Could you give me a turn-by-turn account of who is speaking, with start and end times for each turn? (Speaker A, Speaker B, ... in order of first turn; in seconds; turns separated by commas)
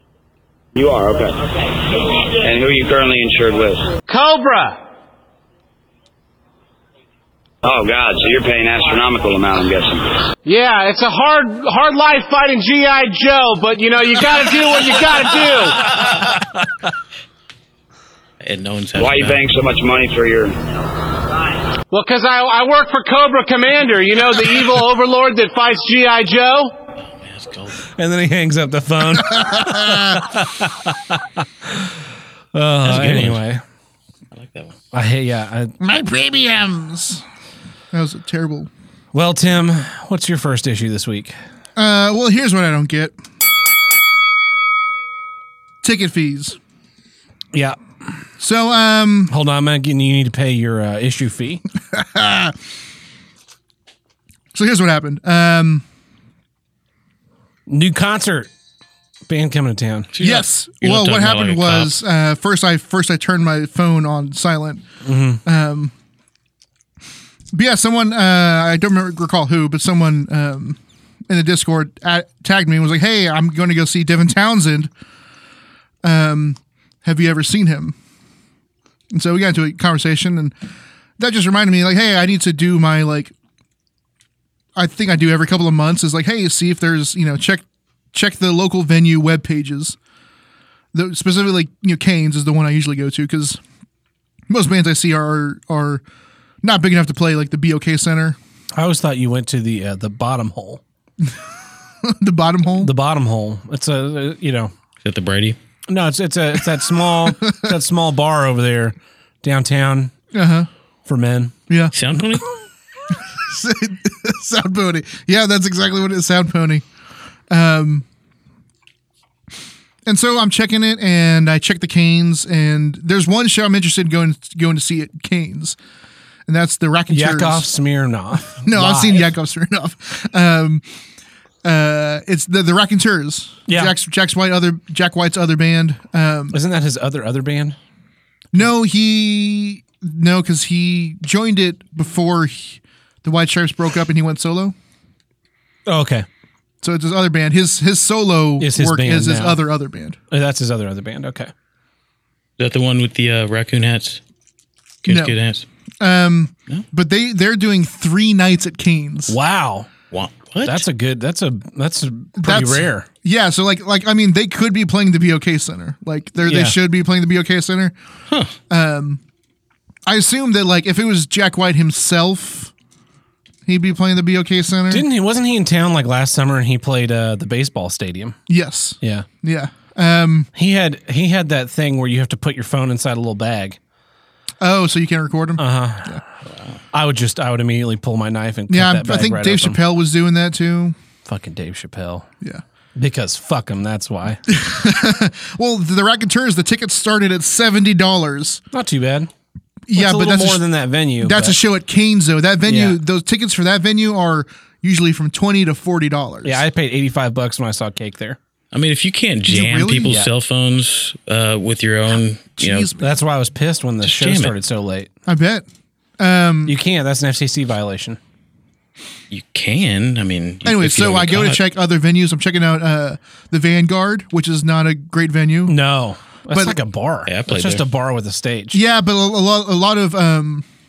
Speaker A: 0.7-3.9, Speaker B: 4.1-4.8, Speaker A: 7.6-10.2, Speaker B: 10.4-16.0, Speaker C: 16.0-16.6, Speaker D: 18.4-19.4, Speaker A: 19.0-20.6, Speaker B: 21.9-26.7, Speaker D: 27.2-27.8, Speaker C: 28.0-31.9, Speaker E: 29.1-30.2, Speaker C: 32.5-33.6, Speaker D: 32.8-33.4, Speaker D: 34.3-34.8, Speaker C: 34.9-35.7, Speaker E: 35.8-37.2, Speaker E: 37.9-38.7, Speaker C: 39.1-41.4, Speaker E: 41.8-43.1, Speaker E: 45.8-46.6, Speaker E: 48.4-49.3, Speaker C: 49.3-51.6, Speaker E: 51.9-52.5, Speaker E: 54.5-55.8, Speaker C: 57.7-58.5, Speaker C: 59.3-60.1, Speaker D: 60.1-62.0, Speaker E: 60.2-64.8, Speaker C: 65.0-65.4, Speaker E: 65.4-65.9, Speaker E: 67.5-74.9, Speaker E: 76.0-78.0, Speaker E: 79.1-80.5, Speaker E: 81.2-83.3, Speaker E: 84.7-90.0, Speaker E: 90.9-93.6, Speaker E: 94.5-96.0, Speaker E: 96.6-98.4, Speaker C: 98.7-100.8, Speaker E: 102.0-102.9, Speaker C: 102.8-104.7, Speaker D: 105.0-105.6, Speaker C: 105.9-110.1, Speaker E: 107.2-107.7, Speaker E: 110.3-110.7, Speaker C: 111.0-111.5, Speaker E: 111.7-111.9, Speaker D: 111.9-112.5, Speaker E: 113.1-116.8, Speaker E: 117.5-118.0, Speaker E: 120.0-125.8, Speaker E: 126.5-127.7, Speaker C: 127.1-129.3, Speaker E: 128.4-130.8, Speaker E: 131.6-136.6, Speaker C: 133.7-133.9, Speaker C: 136.5-137.8, Speaker E: 138.5-144.7, Speaker C: 145.9-146.2, Speaker E: 146.8-150.2, Speaker C: 148.6-149.6, Speaker C: 150.3-151.5, Speaker D: 152.6-154.2, Speaker D: 155.0-155.7, Speaker E: 155.1-155.3, Speaker E: 156.0-159.3, Speaker C: 159.3-159.9, Speaker D: 160.1-160.8, Speaker C: 160.6-163.1, Speaker E: 162.4-167.9, Speaker C: 166.4-166.8, Speaker D: 168.3-168.5, Speaker E: 168.7-169.2, Speaker E: 170.1-172.7, Speaker E: 173.7-175.0, Speaker C: 174.9-178.4, Speaker E: 178.5-180.5, Speaker C: 179.0-179.3, Speaker C: 180.5-183.8, Speaker E: 184.6-186.2, Speaker C: 185.6-186.2, Speaker C: 186.9-189.8, Speaker E: 188.7-190.9, Speaker C: 191.2-192.3, Speaker C: 193.0-194.4, Speaker E: 194.5-198.6, Speaker C: 198.7-199.3, Speaker E: 199.9-200.6, Speaker C: 199.9-201.6, Speaker E: 201.2-206.6, Speaker C: 202.7-203.0, Speaker C: 206.4-208.4, Speaker D: 208.7-212.9, Speaker E: 209.4-210.2, Speaker E: 212.6-213.1, Speaker C: 213.0-215.1, Speaker D: 214.0-214.5, Speaker E: 215.2-215.7, Speaker E: 216.2-216.8, Speaker C: 216.7-218.2, Speaker D: 219.3-221.6, Speaker E: 220.6-225.8, Speaker C: 225.7-228.8, Speaker E: 226.5-226.8, Speaker D: 227.3-227.8, Speaker E: 228.7-230.7